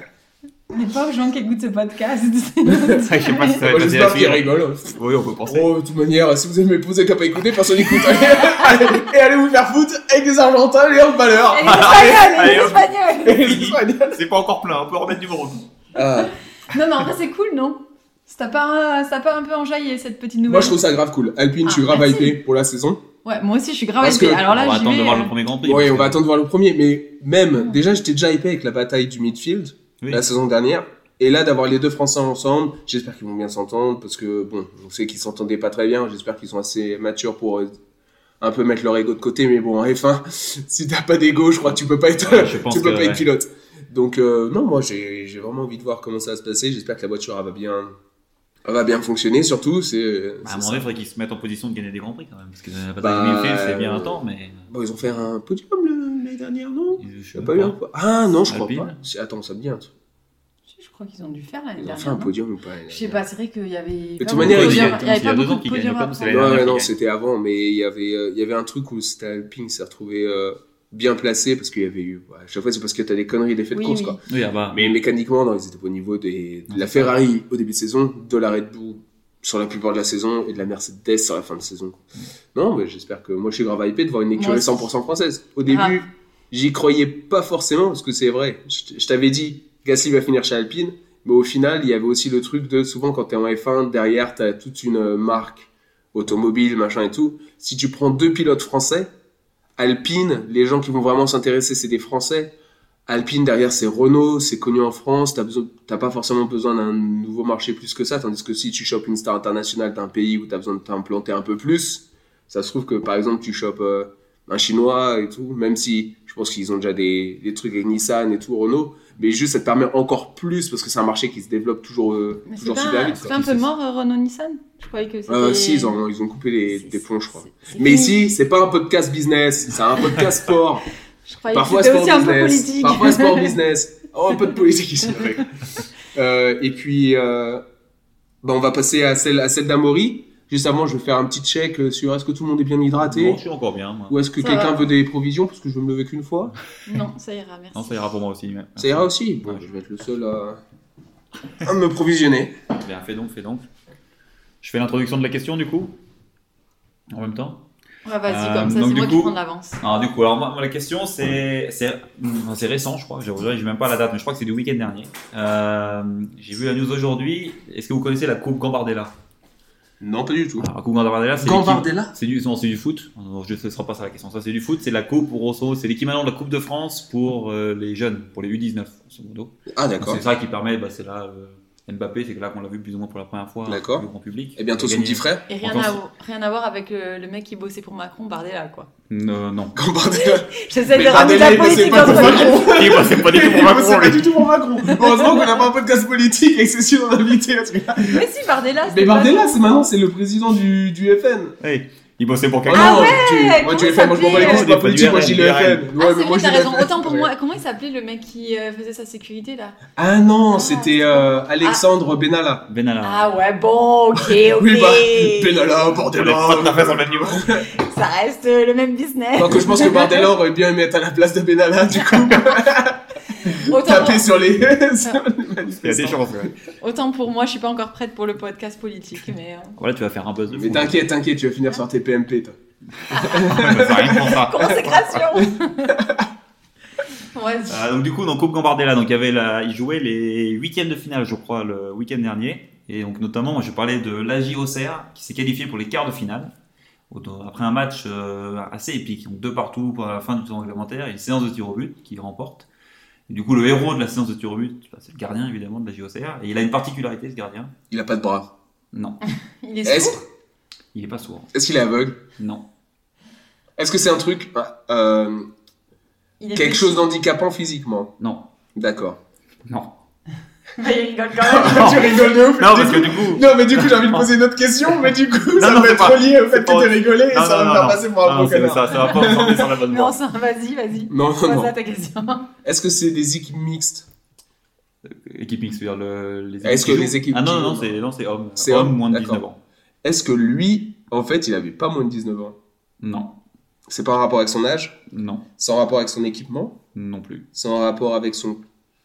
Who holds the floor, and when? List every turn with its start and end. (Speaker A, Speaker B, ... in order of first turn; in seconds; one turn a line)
Speaker A: 0.7-3.6
Speaker B: 2.7-3.0
Speaker C: 3.1-5.7
Speaker B: 3.6-14.2
Speaker A: 11.5-13.4
Speaker C: 11.7-15.7
Speaker B: 15.9-16.3
Speaker A: 16.7-20.8
Speaker B: 20.5-23.0
Speaker A: 21.6-22.4
Speaker A: 23.2-25.3
Speaker B: 24.0-24.5
Speaker C: 24.5-26.2
Speaker B: 25.6-37.7
Speaker B: 38.4-47.9
Speaker C: 42.2-43.2
Speaker B: 48.6-50.9
Speaker C: 50.4-54.7
Speaker B: 53.0-54.2
Speaker B: 54.7-59.9
Speaker C: 57.0-57.8
Speaker C: 58.5-59.0
Speaker A: 60.7-62.3
Speaker B: 61.8-63.2
Speaker A: 62.9-66.4
Speaker B: 64.2-65.0
Speaker C: 64.3-66.9
Speaker B: 66.3-74.2
Speaker A: 73.7-74.2
Speaker C: 74.3-75.0
Speaker B: 74.7-82.0
Speaker C: 76.7-77.2
Speaker B: 82.5-99.1
Speaker A: 84.4-84.9
Speaker A: 85.7-86.0
Speaker B: 99.8-102.5
Speaker B: 103.1-123.4
Speaker A: 122.5-126.0
Speaker C: 123.2-123.6
Speaker B: 125.3-130.9
Speaker A: 126.7-128.3
Speaker A: 131.3-133.6
Speaker B: 131.5-135.5
Speaker B: 136.1-137.6
Speaker B: 138.4-143.4
Speaker C: 143.0-144.2
Speaker B: 144.1-146.5
Speaker A: 144.4-144.9
Speaker A: 146.9-148.1
Speaker C: 147.8-149.7
Speaker B: 148.8-150.6
Speaker B: 151.6-152.6
Speaker C: 152.8-153.7
Speaker C: 154.6-156.0
Speaker C: 157.1-157.6
Speaker A: 158.1-159.8
Speaker C: 158.3-169.1
Speaker B: 170.0-170.7
Speaker C: 170.6-186.0
Speaker B: 171.4-172.1
Speaker B: 179.7-180.2
Speaker B: 183.7-185.4
Speaker A: 185.5-188.9
Speaker C: 189.1-189.8
Speaker B: 189.8-198.3
Speaker A: 190.1-192.8
Speaker C: 192.0-194.5
Speaker A: 198.0-199.9
Speaker B: 198.9-201.6
Speaker C: 201.6-203.2
Speaker B: 202.7-207.3
Speaker A: 202.7-204.7
Speaker C: 204.2-205.9
Speaker A: 206.0-209.8
Speaker B: 210.0-212.7
Speaker A: 210.5-211.8
Speaker C: 212.7-213.3
Speaker A: 213.0-215.6
Speaker B: 214.2-217.7
Speaker C: 216.1-217.6
Speaker A: 217.7-220.3
Speaker B: 219.4-226.5
Speaker A: 223.3-224.3
Speaker C: 225.8-226.5
Speaker A: 226.8-229.8
Speaker C: 229.8-231.1
Speaker B: 230.5-232.6
Speaker B: 233.1-234.4
Speaker A: 233.1-233.5
Speaker C: 233.3-235.2
Speaker A: 234.1-236.0
Speaker A: 237.3-237.8
Speaker C: 237.7-246.5
Speaker C: 247.1-252.7
Speaker C: 253.3-257.7
Speaker B: 257.9-258.5
Speaker C: 258.9-259.2
Speaker A: 259.6-260.2
Speaker B: 259.9-260.2
Speaker C: 260.9-261.5
Speaker B: 261.5-262.2
Speaker C: 262.4-262.7
Speaker B: 263.8-265.5
Speaker A: 266.4-267.1
Speaker B: 266.6-268.1
Speaker C: 268.2-268.5
Speaker B: 268.8-269.2
Speaker C: 269.7-270.0
Speaker A: 270.8-272.3
Speaker B: 271.4-279.8
Speaker C: 271.6-274.3
Speaker C: 275.6-280.2
Speaker A: 279.9-282.5
Speaker B: 281.1-281.7
Speaker B: 282.6-284.1
Speaker C: 285.1-289.6
Speaker B: 286.6-288.0
Speaker B: 288.6-289.4
Speaker B: 290.0-292.6
Speaker C: 293.0-293.4
Speaker B: 293.9-295.0
Speaker C: 295.1-295.5
Speaker B: 295.6-296.8
Speaker C: 296.9-297.5
Speaker B: 297.5-298.6